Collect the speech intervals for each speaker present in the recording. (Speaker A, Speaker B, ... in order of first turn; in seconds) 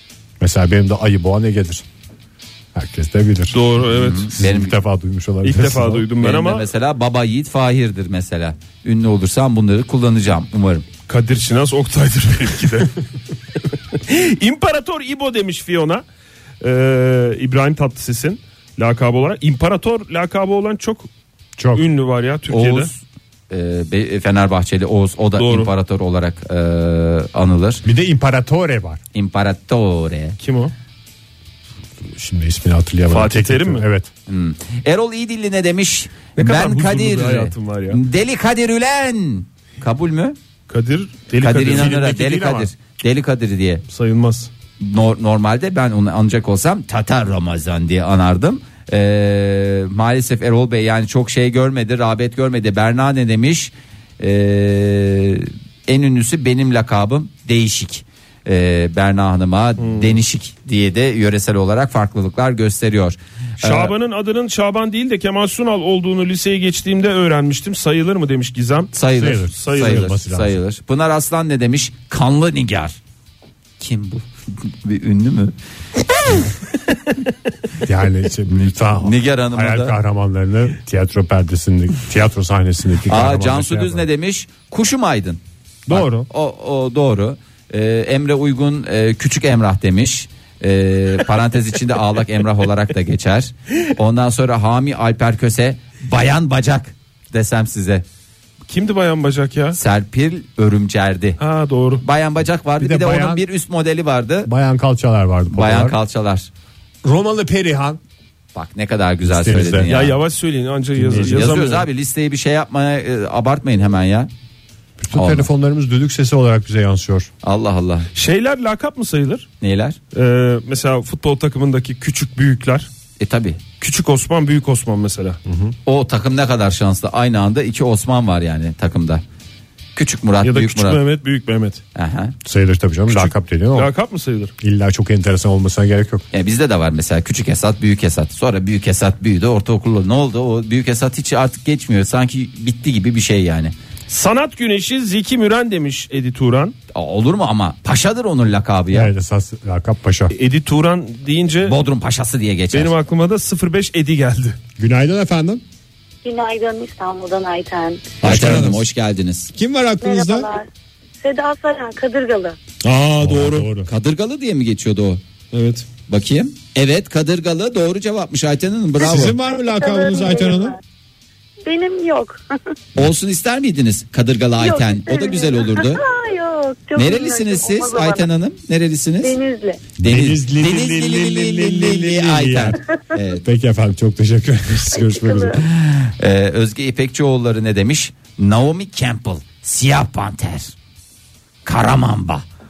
Speaker A: 0.4-1.8, 2.7-3.6, 4.2-6.0, 21.6-21.9, 27.8-29.0, 32.1-34.1, 41.7-42.0, 69.1-70.6, 77.8-84.0, 85.9-86.3, 102.8-103.4, 104.4-106.0, 107.0-108.0, 109.2-109.9, 111.0-111.6, 115.0-117.3, 125.5-125.7, 132.4-133.9, 134.6-136.2, 148.9-150.3, 154.8-155.6, 158.2-158.8, 159.5-160.5, 163.2-163.9, 169.0-170.8, 180.0-182.8, 183.4-185.6
Speaker B: 3.5-4.3, 5.4-6.7, 11.1-12.9, 13.9-16.0, 16.6-21.1, 21.7-22.9, 25.4-25.7, 30.4-30.7, 33.1-33.8, 36.4-38.0, 40.7-42.7, 43.9-44.5, 59.8-60.2, 63.6-68.9, 69.5-70.1, 98.7-99.8, 101.4-102.0, 109.9-111.8, 118.1-119.5, 120.1-122.9, 123.8-125.4, 130.4-131.8, 133.1-134.5, 144.1-146.7, 150.3-151.8, 152.7-154.6, 158.3-158.6, 162.8-163.7, 165.5-165.8
Speaker C: 3.9-4.8, 6.2-10.8, 22.5-23.0, 23.5-27.8, 29.1-30.4, 34.3-40.4, 41.4-43.8, 44.8-63.9, 68.9-73.0, 73.8-75.5, 78.5-80.0, 83.1-98.0, 99.7-101.4, 102.0-104.5, 105.5-106.5, 108.5-110.2, 111.2-114.3, 115.1-115.5, 117.4-118.1, 119.6-120.0, 123.2-123.6, 125.8-129.2, 129.9-131.0, 131.9-132.3, 136.3-143.7, 146.9-149.1, 151.6-152.9, 158.2-159.5, 163.8-165.2, 166.1-169.3, 172.9-176.0, 176.9-179.4, 180.0-183.4, 185.6-190.7, 191.6-192.4
Speaker D: 156.2-158.1, 160.0-160.7, 161.2-162.6, 169.5-170.8, 171.6-172.4, 174.6-178.3, 179.2-179.8, 185.0-185.6